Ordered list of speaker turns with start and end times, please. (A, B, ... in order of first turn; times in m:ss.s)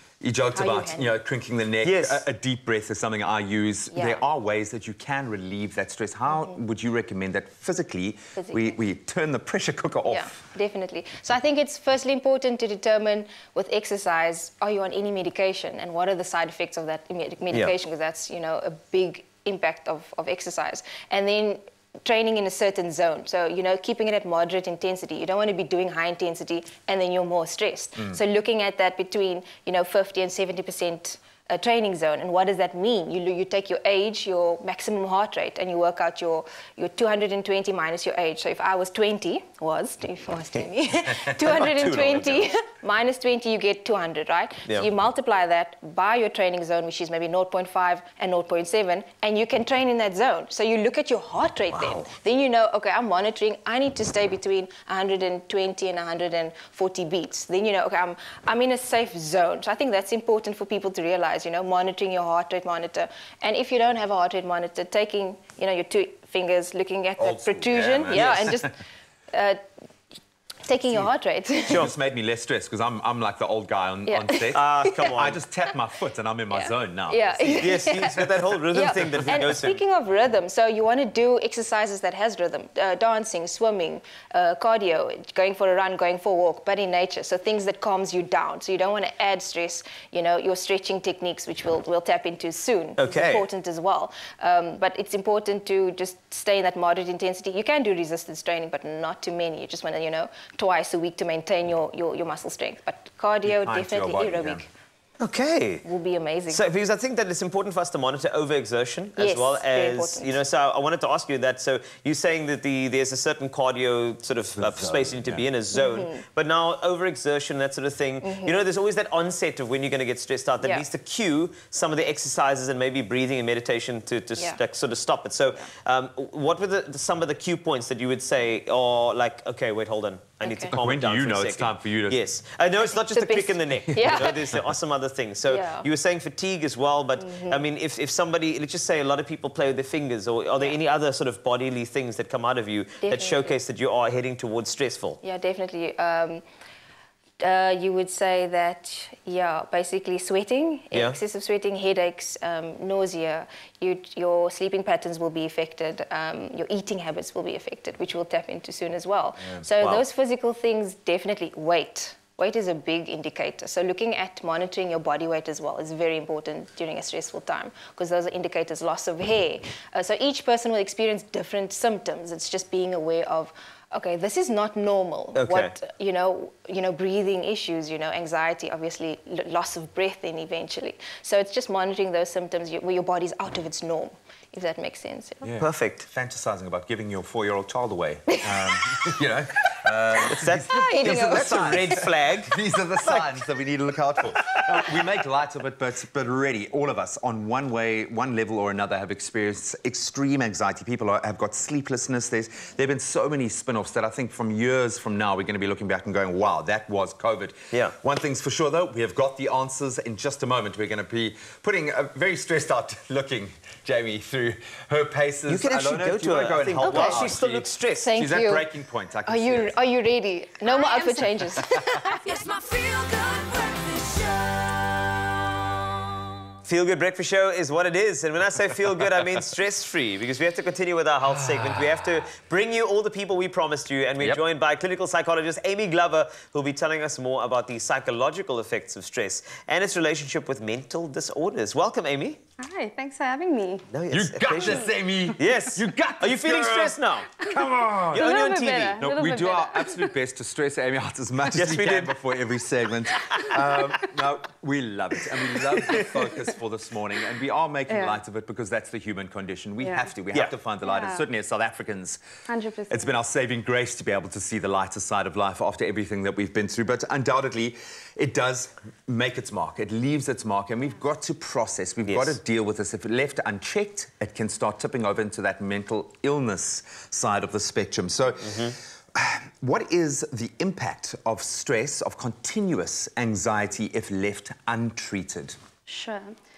0:00.2-0:10.4 A
0:00.5-0:01.1 B
0:01.8-0:02.2 C
0:03.9-0:04.2 B
0:08.3-0:08.7 B
0:10.1-1:08.8 B
0:41.4-0:42.4 C
0:51.7-0:52.0 C
1:07.2-1:08.6 A
1:08.1-1:08.5 C
1:09.3-1:09.6 B
1:10.6-1:11.8 B
1:11.7-1:18.4 A
1:14.1-1:15.0 B
1:14.5-1:15.4 C
1:17.1-1:18.2 B
1:17.6-1:19.8 C
1:18.7-1:44.7 B
1:33.0-1:33.4 C
1:43.4-1:44.6 A
1:45.2-1:45.8 C
1:45.8-1:46.6 B
1:46.5-2:25.2 C
1:49.2-1:50.3 B
1:54.5-1:55.4 A
1:55.7-1:56.2 B
1:58.2-1:58.6 B
2:00.6-2:00.8 B
2:10.4-2:10.7 B
2:10.7-2:12.2 A
2:12.8-2:14.5 B
2:15.5-2:15.9 B
2:17.2-2:17.6 B
2:23.0-2:23.6 B
2:25.2-2:26.4 B
2:27.4-3:05.4 B
2:55.3-2:55.7 C
3:05.4-3:39.8 A
3:05.6-3:06.0 C
3:10.3-3:13.4 C
3:10.7-3:12.0 B
3:14.3-3:14.9 C
3:35.5-3:38.1 C
3:36.8-3:37.3 B
3:38.0-3:38.7 B
3:39.2-3:42.2 B
3:42.2-3:44.9 D
3:46.6-4:02.4 C
3:51.2-3:52.3 A
4:02.6-4:03.9 E
4:03.9-4:07.5 C
4:04.1-4:08.4 A
4:08.1-4:09.0 C
4:08.1-4:09.9 E
4:08.9-4:22.2 A
4:11.5-4:12.2 C
4:13.2-4:13.8 C
4:15.8-4:16.1 C
4:17.9-4:18.2 E
4:19.8-4:20.1 E
4:20.8-4:21.2 E
4:22.5-4:23.1 E
4:22.9-4:45.6 A
4:32.0-4:32.3 C
4:38.4-4:38.8 C
4:45.9-4:46.3 E